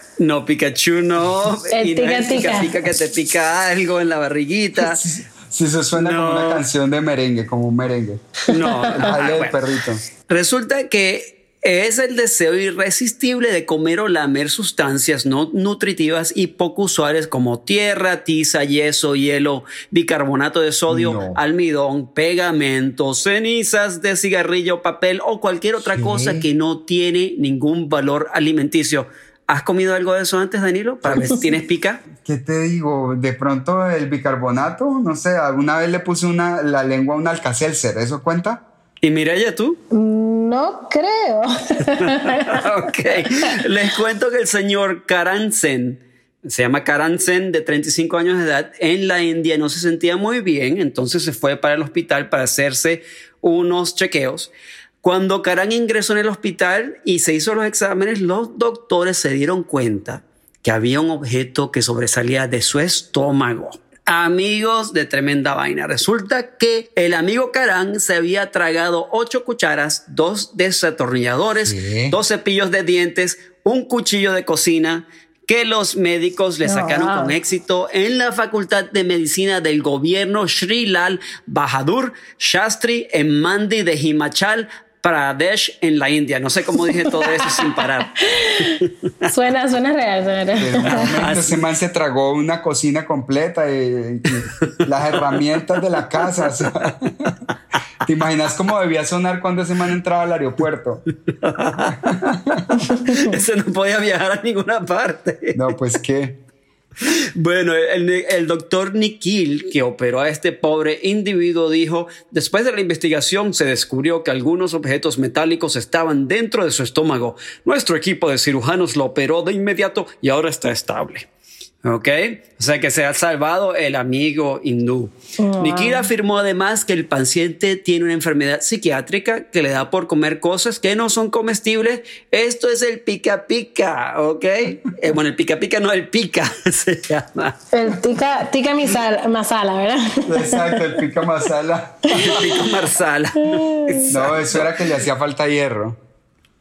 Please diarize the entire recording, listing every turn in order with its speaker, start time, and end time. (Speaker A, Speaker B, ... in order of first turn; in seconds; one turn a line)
Speaker A: 0.2-5.0
Speaker B: 1.7-2.7
Speaker C: 4.8-8.3
Speaker A: 5.9-6.6
Speaker A: 8.5-9.6
Speaker C: 8.9-10.0
Speaker A: 10.2-32.0
Speaker C: 20.9-21.4
Speaker C: 25.8-26.5
Speaker C: 32.2-38.6
Speaker A: 39.0-39.8
Speaker B: 39.9-42.6
Speaker A: 42.1-54.5
Speaker A: 55.0-88.9
Speaker C: 71.5-72.2
Speaker B: 76.6-77.3
Speaker B: 87.0-91.1
Speaker C: 90.6-97.4
Speaker A: 90.9-91.6
Speaker A: 94.9-95.4
Speaker A: 96.1-96.9
Speaker C: 98.0-101.0
Speaker A: 101.4-105.6
Speaker C: 102.0-102.9
Speaker C: 105.5-106.4
Speaker A: 107.0-121.3
Speaker A: 121.8-137.6
Speaker B: 125.4-126.1
Speaker B: 137.7-140.9
Speaker C: 140.2-142.6
Speaker A: 142.1-144.7
Speaker B: 143.5-144.0
Speaker C: 144.1-146.0